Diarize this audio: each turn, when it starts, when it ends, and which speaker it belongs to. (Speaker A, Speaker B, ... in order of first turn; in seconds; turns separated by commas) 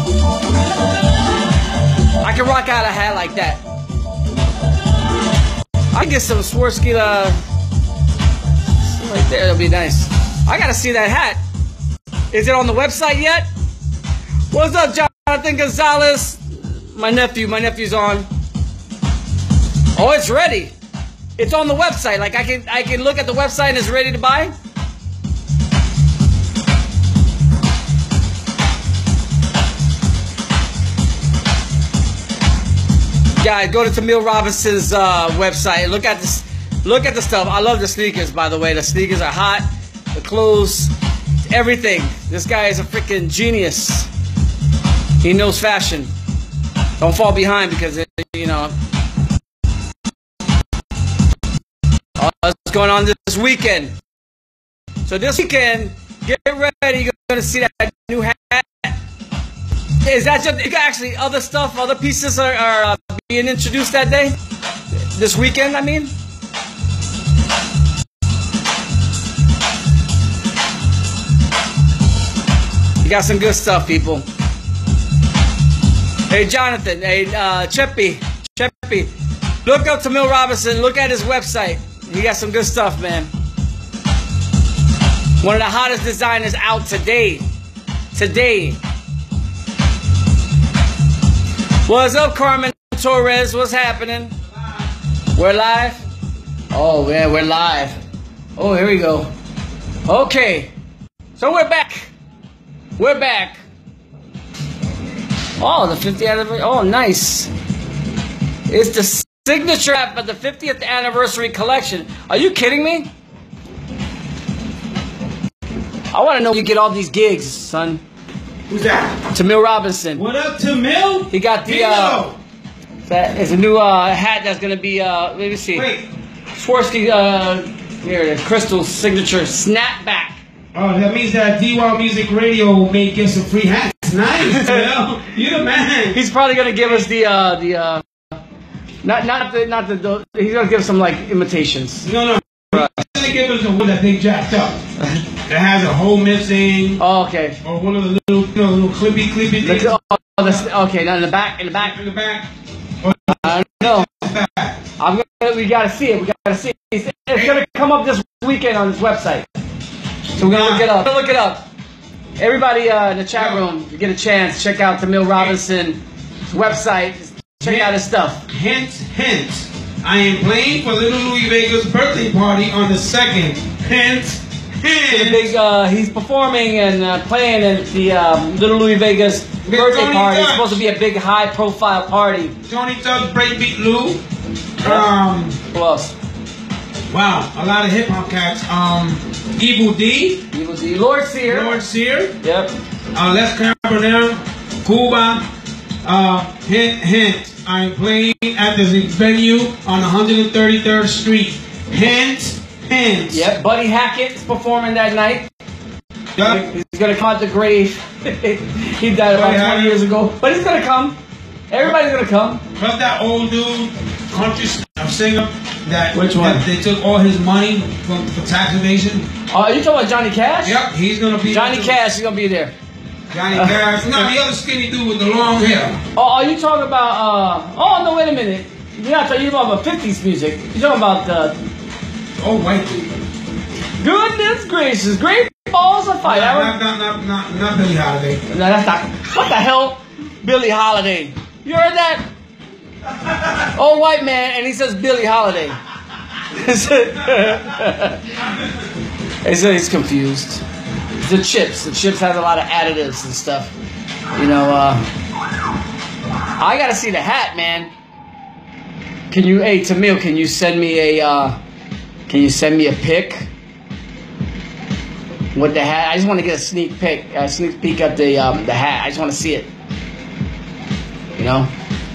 Speaker A: 2.2-3.6, Speaker A: 5.9-7.4, Speaker A: 8.8-11.4, Speaker A: 12.3-13.5, Speaker A: 14.5-18.3, Speaker A: 19.9-20.7, Speaker A: 21.4-24.5, Speaker A: 33.4-40.9, Speaker A: 41.4-44.1, Speaker A: 45.2-46.1, Speaker A: 47.0-48.8, Speaker A: 52.2-53.9, Speaker A: 55.1-59.0, Speaker A: 60.0-64.4, Speaker A: 65.1-66.1, Speaker A: 73.0-74.2, Speaker A: 76.3-79.1, Speaker A: 79.6-83.3, Speaker A: 85.4-87.4, Speaker A: 88.1-88.8, Speaker A: 91.9-94.4, Speaker A: 95.4-96.0, Speaker A: 96.7-98.0, Speaker A: 98.6-99.3, Speaker A: 100.0-100.7, Speaker A: 101.4-102.1, Speaker A: 103.0-103.6, Speaker A: 105.6-107.5, Speaker A: 108.7-113.1, Speaker A: 116.1-118.0, Speaker B: 118.7-119.2, Speaker A: 119.3-120.2, Speaker B: 120.1-122.4, Speaker A: 121.3-122.2, Speaker A: 123.1-125.9, Speaker B: 125.8-126.1, Speaker A: 126.5-130.4, Speaker B: 130.7-136.2, Speaker A: 136.1-138.0, Speaker A: 139.0-142.1, Speaker B: 142.0-144.8, Speaker B: 145.5-147.0, Speaker A: 147.0-147.6, Speaker B: 147.6-150.7, Speaker A: 149.6-151.9, Speaker B: 151.7-152.5, Speaker B: 153.0-154.8, Speaker A: 153.3-154.1, Speaker A: 155.0-159.5, Speaker B: 160.4-160.9, Speaker A: 160.4-161.7, Speaker A: 162.4-168.4, Speaker B: 163.3-163.6, Speaker B: 167.6-167.9, Speaker B: 168.5-175.5, Speaker A: 175.1-182.6, Speaker B: 179.6-180.8, Speaker B: 182.7-184.2, Speaker B: 184.8-185.6, Speaker A: 184.8-185.1, Speaker A: 185.7-186.1, Speaker B: 187.1-190.4, Speaker A: 190.5-191.8, Speaker B: 191.5-192.3, Speaker A: 192.4-192.7, Speaker B: 193.1-195.4, Speaker B: 196.0-203.5, Speaker A: 203.3-205.5, Speaker B: 206.4-206.7, Speaker A: 206.4-211.2, Speaker B: 209.3-210.0, Speaker A: 211.7-212.6, Speaker B: 212.8-219.2, Speaker A: 216.1-216.6, Speaker A: 219.5-220.8, Speaker B: 220.6-222.0, Speaker A: 221.4-222.7, Speaker B: 223.3-226.0, Speaker A: 226.1-231.6, Speaker B: 232.4-233.1, Speaker A: 234.0-236.8, Speaker B: 236.2-238.4, Speaker A: 238.5-242.2, Speaker A: 243.5-245.8, Speaker A: 246.5-248.4, Speaker A: 249.4-250.6, Speaker A: 251.2-253.7, Speaker A: 254.3-255.1, Speaker A: 256.6-257.9, Speaker A: 259.3-261.6, Speaker A: 262.3-263.5, Speaker A: 265.5-269.7, Speaker A: 271.4-271.7